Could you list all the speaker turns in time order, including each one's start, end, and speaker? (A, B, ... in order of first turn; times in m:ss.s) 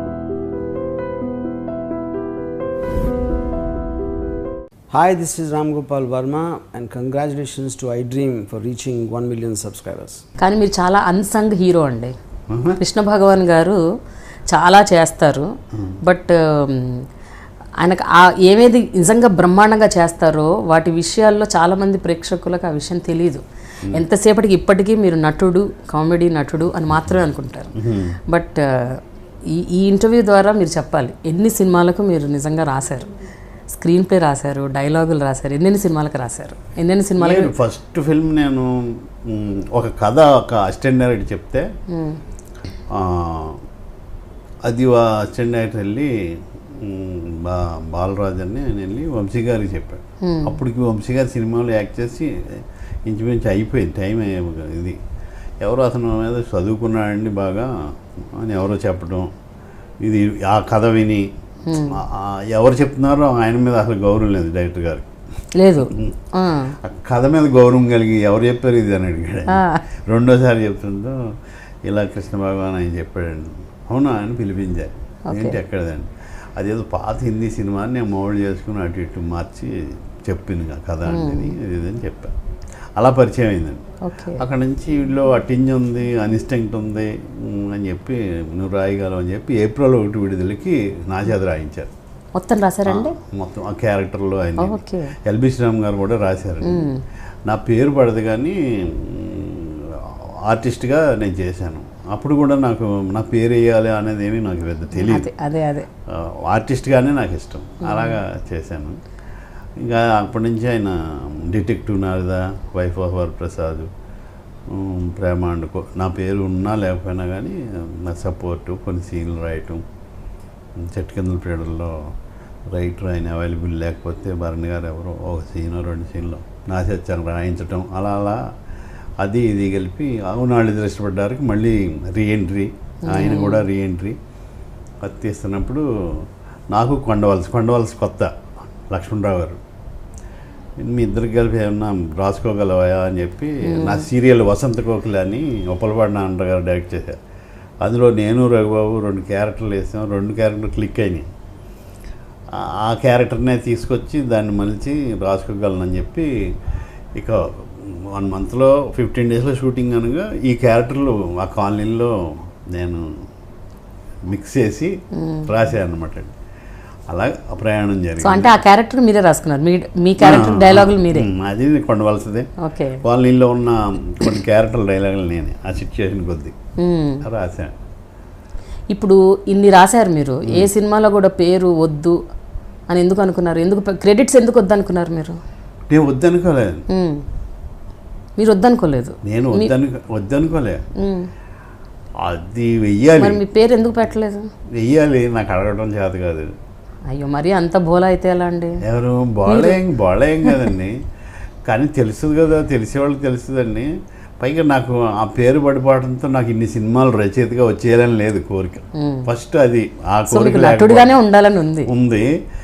0:04.9-0:10.2 A
0:10.4-0:12.1 B
0:12.5-0:12.8 C
0:12.8-0:13.8 B
0:14.5-0:15.5 B
0:16.0-0:17.0 B
0:17.8-0:27.7 B
0:27.8-0:28.2 C
0:28.3-0:29.0 B
0:29.5-0:33.1 B
0:33.7-0:37.5 B
0:37.2-0:41.7 C
0:41.9-0:42.2 B
0:42.9-0:43.6 C
0:44.6-0:55.0 C
0:50.2-0:50.6 B
0:55.6-0:57.7 C
0:58.3-0:59.3 C
1:00.0-1:05.1 C
1:01.7-1:02.0 B
1:05.5-1:06.7 B
1:06.8-1:11.3 C
1:09.5-1:09.8 B
1:11.9-1:22.3 C
1:15.3-1:15.6 B
1:21.1-1:21.5 B
1:23.0-1:23.8 C
1:24.0-1:24.4 B
1:24.4-1:31.9 C
1:32.4-1:33.1 B
1:32.9-1:36.9 C
1:34.6-1:35.1 B
1:36.6-1:37.0 B
1:37.5-1:45.3 C
1:45.1-1:45.9 B
1:46.1-1:49.0 C
1:47.8-1:48.2 B
1:49.8-1:53.9 C
1:54.7-1:59.8 C
2:00.8-2:02.1 C
2:02.7-2:08.4 C
2:09.2-2:14.2 C
2:13.1-2:13.6 B
2:15.0-2:18.3 C
2:18.9-2:19.6 C
2:20.8-2:27.2 C
2:23.7-2:24.1 B
2:27.8-2:31.2 C
2:32.5-2:36.5 C
2:37.2-2:43.1 C
2:44.3-2:44.9 C
2:45.1-2:45.5 B
2:45.5-2:46.3 C
2:47.1-2:48.6 C
2:48.2-2:51.3 B
2:50.2-2:52.5 C
2:52.6-2:53.0 B
2:53.0-2:56.5 C
2:56.8-2:57.2 B
2:57.2-2:57.7 C
2:58.9-3:02.2 B
3:02.9-3:05.4 B
3:05.9-3:06.8 C
3:06.9-3:07.2 B
3:08.4-3:09.7 B
3:09.2-3:10.8 C
3:11.0-3:11.3 B
3:12.2-3:13.4 C
3:13.2-3:14.4 B
3:14.7-3:16.5 C
3:17.1-3:18.8 B
3:18.8-3:21.0 C
3:19.4-3:19.8 B
3:21.7-3:31.1 C
3:29.0-3:29.3 B
3:30.3-3:31.9 B
3:31.8-3:32.3 C